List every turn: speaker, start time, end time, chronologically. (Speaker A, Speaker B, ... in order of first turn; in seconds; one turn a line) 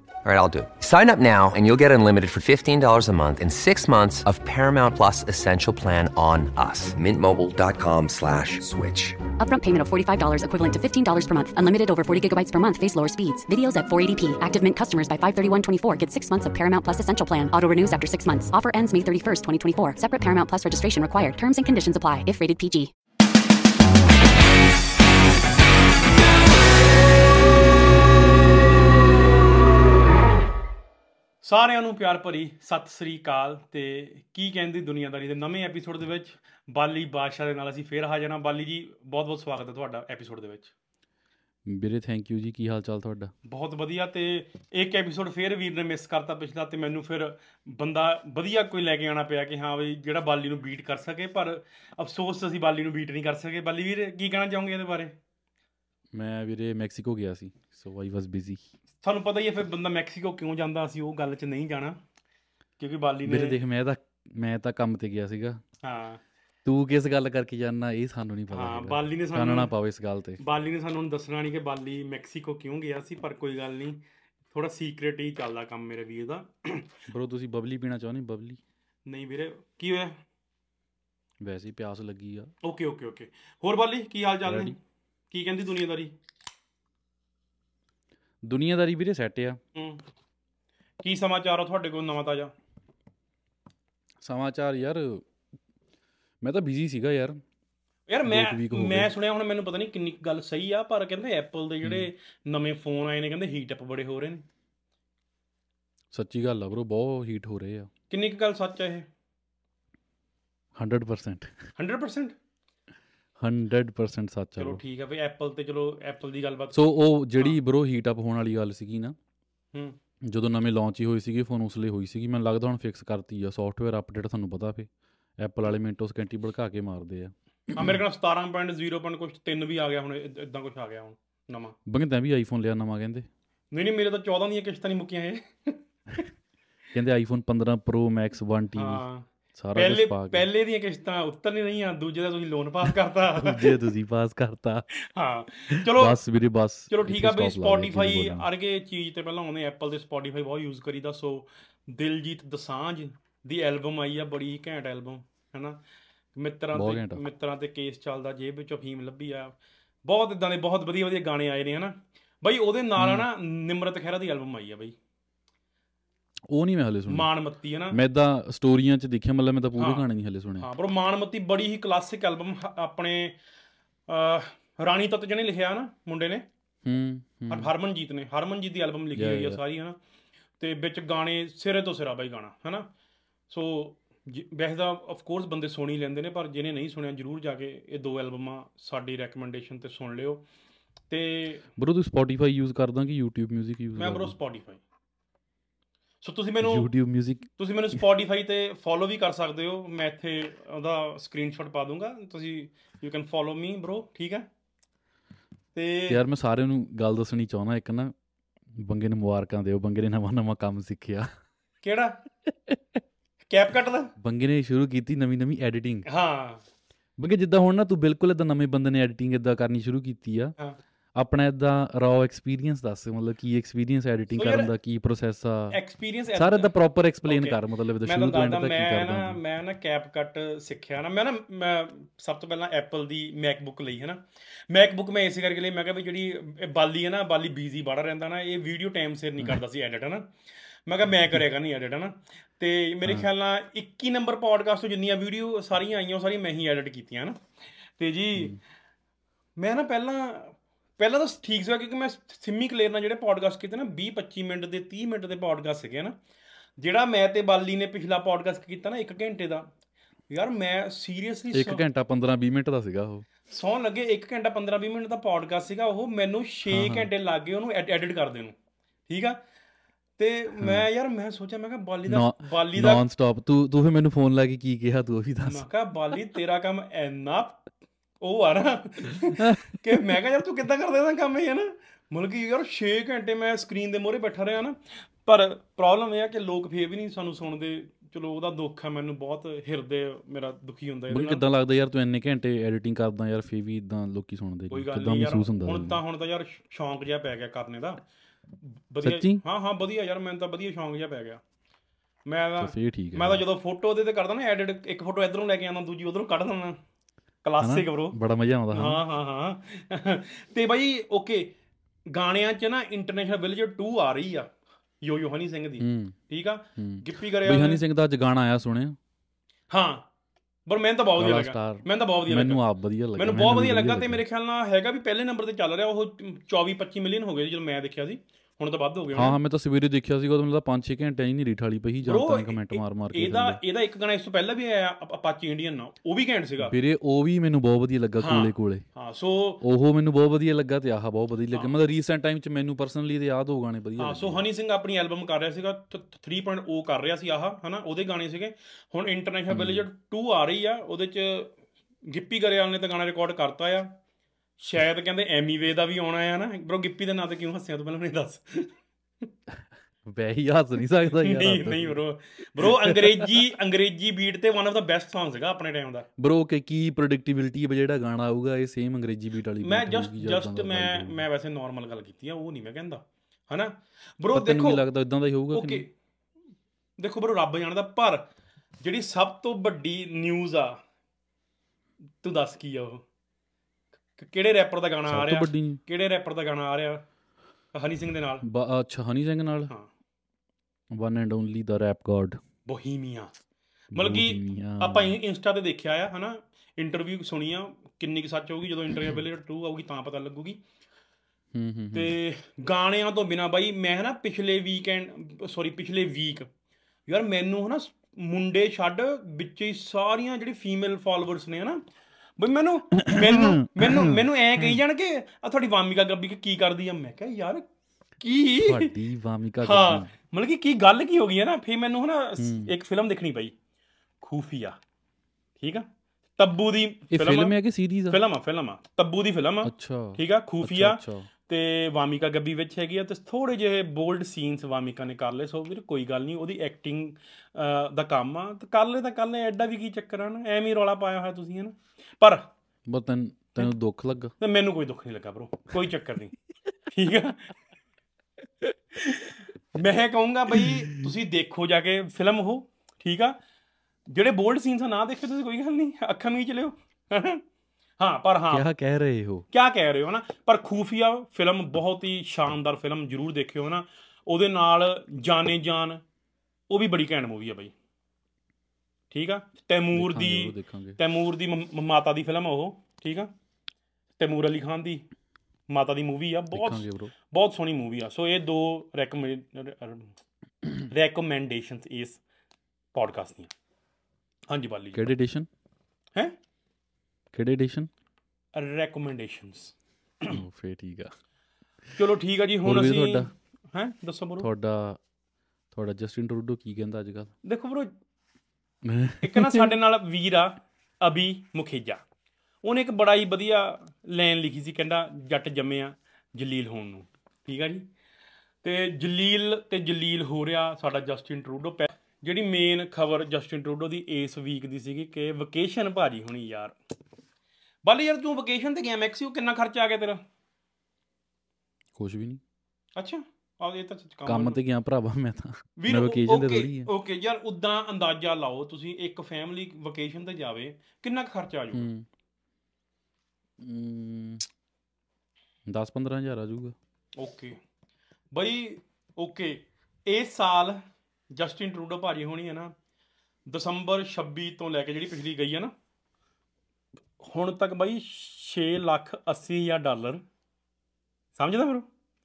Speaker A: 0.2-9.2
Speaker B: 9.4-22.9
Speaker C: 31.4-40.7
Speaker D: 41.7-43.3
Speaker C: 43.5-55.1
Speaker D: 56.1-58.6
Speaker C: 59.0-62.0
Speaker C: 62.8-63.6
Speaker D: 63.3-65.6
Speaker C: 65.8-66.2
Speaker D: 66.7-70.4
Speaker C: 68.5-69.7
Speaker C: 70.4-74.0
Speaker C: 74.5-77.0
Speaker D: 77.1-78.6
Speaker C: 79.1-80.2
Speaker D: 81.4-82.5
Speaker C: 82.6-84.8
Speaker D: 84.5-84.8
Speaker C: 85.3-86.1
Speaker D: 88.5-89.6
Speaker C: 89.8-90.0
Speaker C: 91.0-92.5
Speaker D: 94.2-95.2
Speaker D: 96.4-97.4
Speaker C: 98.1-104.4
Speaker D: 98.3-99.1
Speaker D: 101.8-102.1
Speaker D: 106.1-107.9
Speaker C: 108.1-109.1
Speaker D: 110.8-111.6
Speaker C: 111.8-112.3
Speaker D: 113.4-114.8
Speaker C: 114.6-116.8
Speaker D: 116.7-119.2
Speaker D: 120.3-128.0
Speaker C: 127.7-131.8
Speaker D: 131.9-133.3
Speaker C: 133.7-135.8
Speaker D: 136.9-139.0
Speaker C: 138.8-143.8
Speaker D: 139.6-140.5
Speaker D: 143.3-144.9
Speaker C: 145.0-146.2
Speaker D: 145.7-148.5
Speaker C: 146.9-155.8
Speaker C: 156.4-159.5
Speaker D: 156.7-157.2
Speaker C: 160.1-165.0
Speaker D: 163.0-163.3
Speaker D: 166.5-167.3
Speaker C: 167.1-168.0
Speaker D: 167.9-170.7
Speaker C: 169.8-170.1
Speaker C: 170.6-173.4
Speaker C: 174.1-176.5
Speaker D: 176.8-177.7
Speaker C: 177.5-180.0
Speaker D: 179.1-179.6
Speaker C: 180.6-182.9
Speaker C: 183.5-190.4
Speaker C: 191.1-191.7
Speaker D: 191.8-194.4
Speaker C: 194.0-194.8
Speaker C: 196.2-196.9
Speaker D: 196.6-197.5
Speaker C: 197.6-204.5
Speaker C: 205.8-206.2
Speaker D: 206.1-208.1
Speaker D: 208.8-211.3
Speaker C: 211.8-212.2
Speaker C: 213.5-214.1
Speaker D: 214.2-216.1
Speaker C: 216.1-216.6
Speaker D: 217.2-220.6
Speaker D: 221.2-225.8
Speaker C: 224.3-224.7
Speaker C: 225.7-226.7
Speaker D: 226.3-229.4
Speaker C: 227.2-240.3
Speaker C: 240.9-248.6
Speaker C: 249.6-256.2
Speaker C: 256.8-259.7
Speaker C: 260.3-261.8
Speaker D: 261.5-263.3
Speaker C: 263.5-268.6
Speaker D: 266.7-267.1
Speaker C: 269.1-269.4
Speaker C: 270.2-273.0
Speaker D: 270.6-270.9
Speaker D: 272.1-275.7
Speaker C: 275.4-277.6
Speaker C: 278.2-291.4
Speaker D: 279.4-279.8
Speaker D: 291.1-296.0
Speaker C: 294.7-298.0
Speaker C: 298.9-301.4
Speaker D: 299.0-299.4
Speaker C: 302.3-306.8
Speaker D: 302.6-303.4
Speaker C: 307.4-308.2
Speaker D: 307.6-309.0
Speaker C: 308.7-311.5
Speaker C: 312.1-314.5
Speaker C: 315.0-317.8
Speaker D: 315.8-316.1
Speaker D: 316.8-319.0
Speaker C: 319.7-320.1
Speaker C: 320.7-322.6
Speaker D: 321.2-324.2
Speaker C: 323.2-329.4
Speaker D: 329.1-333.6
Speaker C: 332.1-336.8
Speaker D: 336.6-338.8
Speaker C: 338.2-339.6
Speaker D: 339.6-344.4
Speaker C: 344.0-351.5
Speaker D: 349.5-349.9
Speaker C: 352.1-353.9
Speaker C: 354.6-358.8
Speaker D: 359.5-362.0
Speaker C: 361.1-366.1
Speaker D: 362.6-363.3
Speaker D: 366.2-371.2
Speaker C: 369.6-374.8
Speaker D: 374.3-375.9
Speaker C: 375.5-375.9
Speaker C: 377.0-378.3
Speaker C: 378.8-380.8
Speaker C: 382.2-383.0
Speaker C: 384.2-387.0
Speaker D: 385.1-385.8
Speaker C: 387.8-388.4
Speaker D: 388.4-389.7
Speaker D: 390.9-392.4
Speaker C: 392.7-393.3
Speaker C: 393.9-400.6
Speaker D: 393.9-395.2
Speaker D: 401.5-402.1
Speaker C: 401.9-406.5
Speaker C: 407.1-411.8
Speaker C: 412.4-417.6
Speaker D: 413.0-414.8
Speaker C: 418.2-418.9
Speaker D: 418.6-420.1
Speaker C: 419.6-423.5
Speaker D: 422.4-422.7
Speaker C: 424.2-424.8
Speaker C: 425.6-425.9
Speaker C: 426.4-427.6
Speaker D: 427.1-428.2
Speaker C: 428.1-442.5
Speaker D: 429.6-431.3
Speaker D: 442.9-444.3
Speaker C: 444.4-446.3
Speaker C: 446.9-447.5
Speaker C: 449.0-453.4
Speaker C: 454.1-457.4
Speaker C: 458.0-458.6
Speaker D: 458.5-459.4
Speaker C: 459.5-466.0
Speaker C: 466.7-467.7
Speaker C: 469.1-473.3
Speaker D: 469.9-471.0
Speaker C: 474.2-475.0
Speaker C: 475.7-480.1
Speaker D: 476.5-477.1
Speaker C: 480.9-482.2
Speaker C: 482.9-483.5
Speaker C: 484.5-485.1
Speaker D: 484.9-485.5
Speaker D: 487.3-487.9
Speaker C: 488.6-490.4
Speaker D: 490.3-491.1
Speaker C: 491.9-494.5
Speaker D: 492.6-493.3
Speaker D: 494.4-495.0
Speaker D: 495.7-497.3
Speaker C: 497.4-497.9
Speaker D: 498.8-499.7
Speaker C: 499.2-502.0
Speaker C: 502.6-507.9
Speaker C: 508.6-516.8
Speaker C: 517.8-520.2
Speaker D: 522.0-522.4
Speaker C: 523.0-524.6
Speaker D: 524.3-526.9
Speaker C: 525.8-531.9
Speaker D: 531.7-532.1
Speaker D: 533.6-534.5
Speaker D: 535.7-536.8
Speaker C: 537.2-537.6
Speaker C: 538.3-540.8
Speaker C: 541.3-542.7
Speaker C: 543.5-545.7
Speaker C: 547.2-550.2
Speaker C: 551.4-551.9